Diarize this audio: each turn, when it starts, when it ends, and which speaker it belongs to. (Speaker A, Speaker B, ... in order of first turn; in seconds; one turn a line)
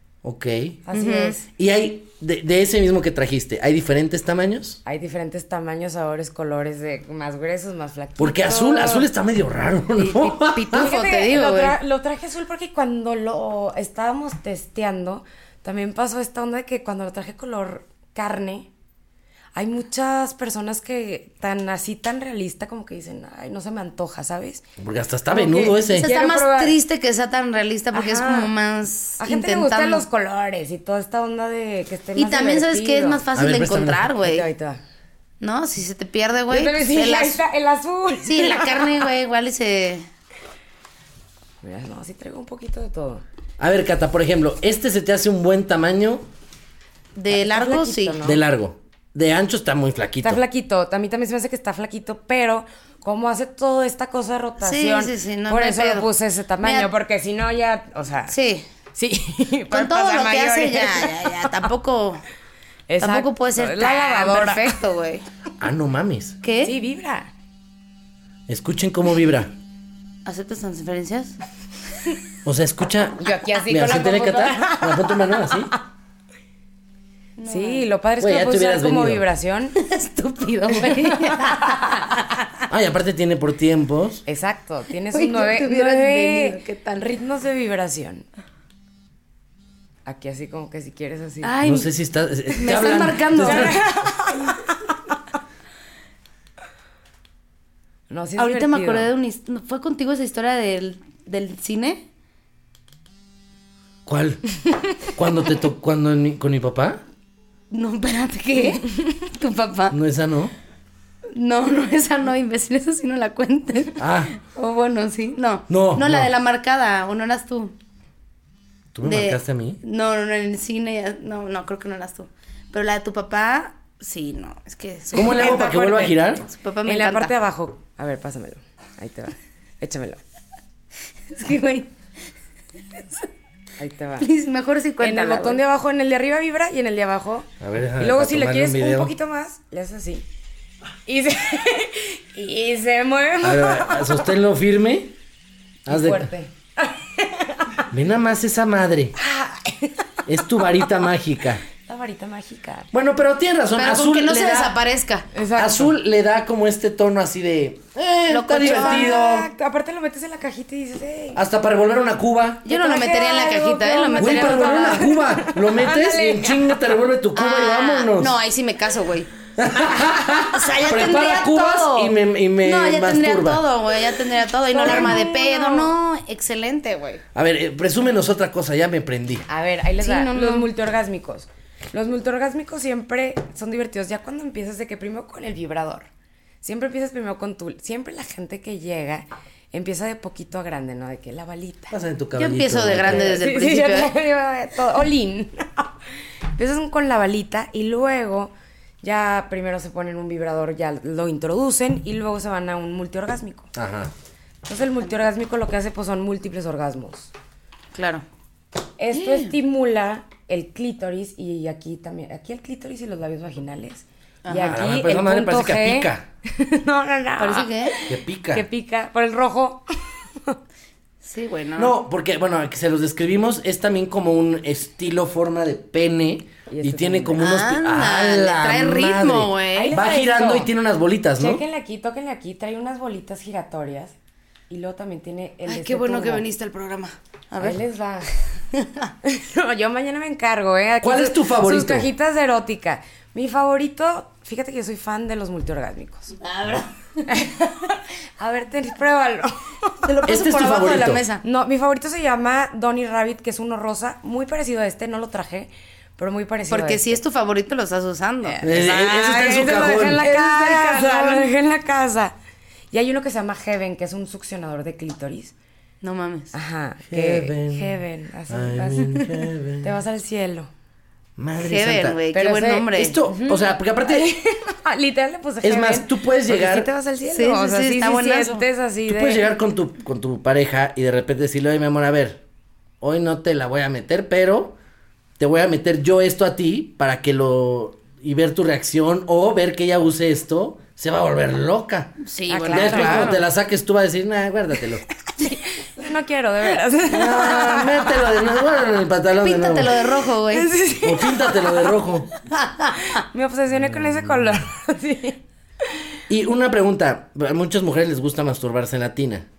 Speaker A: 0.2-0.8
Speaker B: 0.9-1.4
Speaker C: 0.9-1.4
Speaker A: 1.6-4.8
Speaker B: 4.8-9.1
Speaker A: 8.2-10.9
Speaker B: 10.0-18.7
Speaker C: 10.4-11.8
Speaker B: 19.5-24.6
Speaker A: 24.8-26.1
Speaker B: 25.3-26.8
Speaker C: 26.0-30.1
Speaker B: 27.9-28.5
Speaker B: 29.2-33.2
Speaker C: 32.1-34.5
Speaker A: 33.3-34.0
Speaker B: 34.2-34.8
Speaker C: 35.4-37.4
Speaker B: 36.5-39.0
Speaker C: 38.2-40.1
Speaker B: 41.6-43.2
Speaker A: 43.6-46.2
Speaker C: 47.1-48.2
Speaker B: 47.3-48.4
Speaker A: 48.2-50.4
Speaker B: 50.2-58.3
Speaker C: 54.6-56.1
Speaker C: 56.6-56.9
Speaker C: 58.3-58.6
Speaker B: 58.9-61.6
Speaker C: 59.7-62.2
Speaker B: 62.9-64.8
Speaker C: 63.0-65.2
Speaker A: 65.6-66.4
Speaker C: 66.4-66.7
Speaker B: 66.6-67.3
Speaker A: 68.5-69.5
Speaker C: 70.2-71.3
Speaker A: 72.4-75.7
Speaker B: 73.2-75.5
Speaker C: 77.4-77.8
Speaker B: 77.5-79.8
Speaker A: 78.2-79.2
Speaker C: 79.8-82.4
Speaker B: 80.7-82.1
Speaker A: 82.7-84.2
Speaker B: 84.2-88.2
Speaker C: 85.1-87.1
Speaker B: 90.0-91.5
Speaker C: 91.4-91.9
Speaker A: 91.6-93.8
Speaker C: 92.5-93.8
Speaker B: 93.4-95.2
Speaker B: 98.1-99.1
Speaker C: 98.4-102.0
Speaker A: 104.0-107.0
Speaker C: 107.7-110.0
Speaker A: 109.9-110.5
Speaker C: 111.3-117.7
Speaker A: 114.0-114.3
Speaker A: 115.7-116.3
Speaker A: 118.9-119.8
Speaker C: 119.0-127.3
Speaker A: 125.1-126.4
Speaker B: 125.2-126.0
Speaker B: 126.8-130.2
Speaker C: 131.3-131.9
Speaker B: 133.8-134.2
Speaker C: 134.2-135.6
Speaker B: 135.0-140.2
Speaker A: 137.6-139.1
Speaker B: 141.1-144.3
Speaker A: 143.4-145.1
Speaker B: 145.8-147.9
Speaker A: 145.9-146.3
Speaker A: 147.9-149.2
Speaker B: 149.2-150.7
Speaker A: 150.3-151.6
Speaker B: 151.8-152.9
Speaker A: 152.9-154.7
Speaker C: 153.8-155.3
Speaker B: 155.3-155.9
Speaker A: 155.6-159.5
Speaker C: 158.3-159.2
Speaker B: 158.6-161.4
Speaker A: 161.3-162.7
Speaker C: 162.6-165.1
Speaker B: 162.7-166.7
Speaker A: 164.2-168.3
Speaker C: 167.3-169.3
Speaker A: 169.6-173.6
Speaker C: 170.4-177.2
Speaker B: 174.7-175.9
Speaker A: 177.3-179.5
Speaker B: 179.5-186.1
Speaker C: 180.0-180.7
Speaker B: 186.6-191.9
Speaker A: 191.9-193.4
Speaker C: 192.3-194.1
Speaker B: 193.1-195.9
Speaker B: 196.5-203.7
Speaker A: 203.7-204.1
Speaker B: 204.6-207.3
Speaker C: 207.9-208.2
Speaker B: 209.0-220.6
Speaker C: 209.1-209.5
Speaker C: 214.4-214.8
Speaker A: 214.7-216.2
Speaker C: 217.4-218.0
Speaker A: 218.1-218.7
Speaker C: 221.2-221.9
Speaker A: 221.8-231.6
Speaker B: 226.7-227.5
Speaker C: 227.4-230.0
Speaker B: 229.7-230.7
Speaker B: 231.4-234.1
Speaker B: 234.7-236.4
Speaker C: 235.7-237.8
Speaker B: 237.6-238.3
Speaker C: 238.7-239.1
Speaker B: 239.2-246.4
Speaker A: 241.0-242.1
Speaker C: 246.4-247.2
Speaker B: 247.3-250.1
Speaker C: 250.0-251.4
Speaker A: 250.3-251.2
Speaker B: 251.4-257.2
Speaker C: 256.7-259.1
Speaker B: 258.4-262.3
Speaker A: 258.6-260.2
Speaker C: 260.2-261.5
Speaker B: 262.9-265.5
Speaker C: 266.0-266.5
Speaker B: 266.5-269.3
Speaker A: 267.1-267.9
Speaker A: 268.5-269.9
Speaker B: 269.8-270.7
Speaker A: 271.4-272.2
Speaker C: 271.6-273.2
Speaker B: 272.3-279.4
Speaker A: 272.9-274.3
Speaker A: 275.6-276.9
Speaker C: 277.3-278.6
Speaker A: 279.1-282.4
Speaker A: 283.0-284.8
Speaker A: 285.4-295.0
Speaker C: 292.2-293.4
Speaker B: 292.5-293.4
Speaker B: 295.3-298.2
Speaker A: 297.1-299.9
Speaker C: 299.4-300.7
Speaker B: 300.5-301.9
Speaker A: 301.0-302.3
Speaker C: 302.5-303.2
Speaker B: 303.0-305.4
Speaker A: 303.8-304.6
Speaker A: 306.3-309.5